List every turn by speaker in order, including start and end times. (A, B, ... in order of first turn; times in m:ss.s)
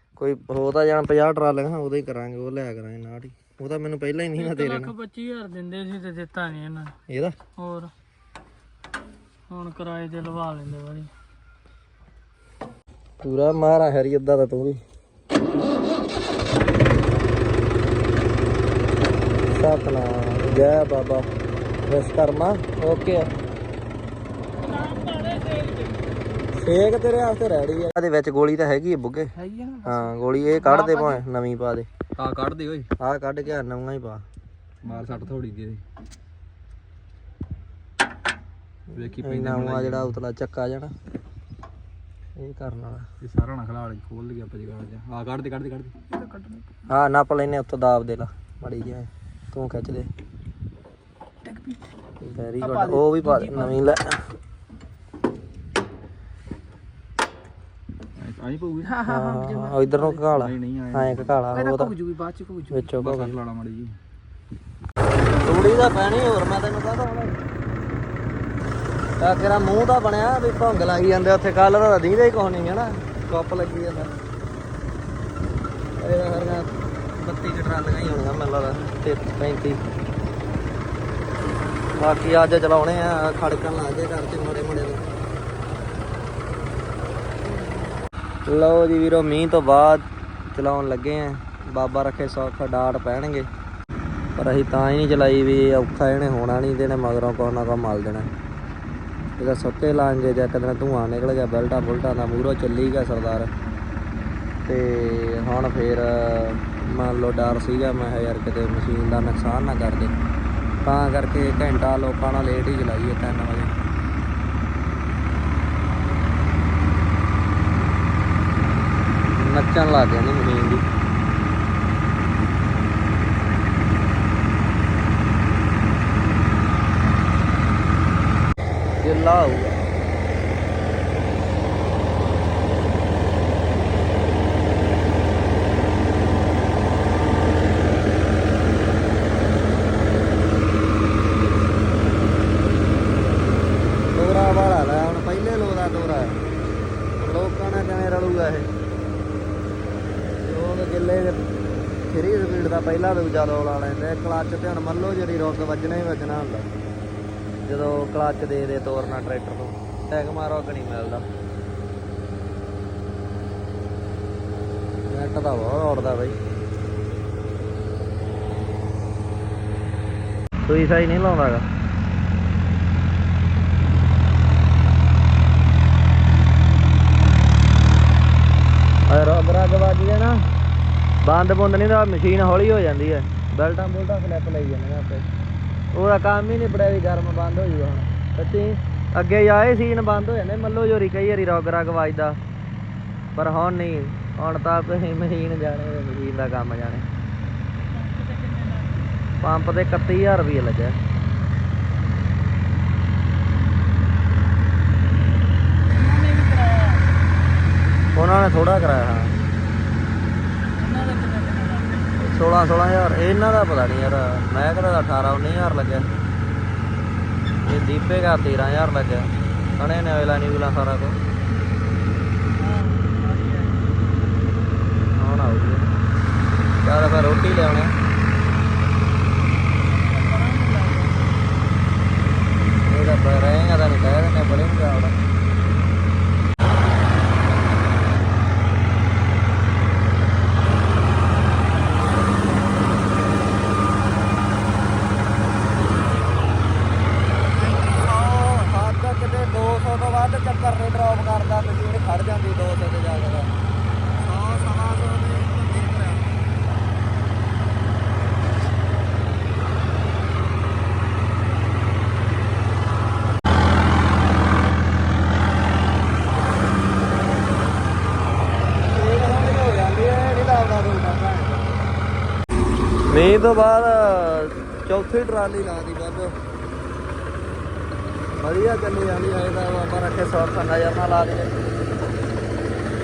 0:00.2-0:04.9 A
0:04.4-0:07.0 B
0:07.1-0:07.3 A
0:07.6-0:07.9 B
0:09.5-0:11.1 B
0:13.2-0:14.8 A
0:19.5-0:21.3 A
0:21.9-0:23.3 A
0:24.6-0:26.0 B
0:26.6-0:29.3 A
0:29.4-0:30.0 C
0:29.8-0:31.9 A
0:30.7-0:31.2 B
0:32.2-0:32.9 C
0:33.0-0:34.2 A
0:34.8-0:35.8 C
0:38.9-0:40.2 C
0:39.2-0:40.9 A
0:42.4-0:43.1 A
0:43.2-0:46.0 C
0:46.9-0:50.1 A
0:52.2-0:54.2 A
0:52.6-0:53.7 C
0:58.2-1:04.0 C
0:59.0-1:02.0 A
1:02.7-1:03.3 A
1:05.4-1:07.4 A
1:09.2-1:14.1 A
1:16.0-1:19.8 A
1:22.0-1:25.0 A
1:28.5-1:33.5 A
1:34.4-1:38.3 A
1:39.4-1:43.5 A
1:44.7-1:50.2 A
1:50.8-1:53.7 A
1:59.4-2:00.8 A
2:09.0-2:09.9 A
2:24.1-2:26.4 A
2:27.2-2:28.7 A
2:30.4-2:31.4 A
2:32.1-2:36.7 A
2:37.6-2:41.2 A
2:45.1-2:46.4 A
2:50.6-2:51.7 A
2:59.1-3:00.4 A
3:01.2-3:05.3 A
3:05.9-3:12.4 A
3:13.4-3:17.1 A
3:17.9-3:19.1 B
3:19.4-3:21.0 A
3:25.9-3:27.0 B
3:28.2-3:29.4 A
3:30.8-3:32.1 B
3:32.2-3:36.1 A
3:37.6-3:41.2 A
3:42.6-3:43.8 B
3:45.2-3:45.9 A
3:46.8-3:47.9 A
3:49.9-3:51.2 B
3:52.9-3:55.2 A
4:07.5-4:13.5 A
4:14.2-4:16.4 A
4:28.8-4:31.8 A
4:33.1-4:36.3 A
4:38.4-4:41.6 A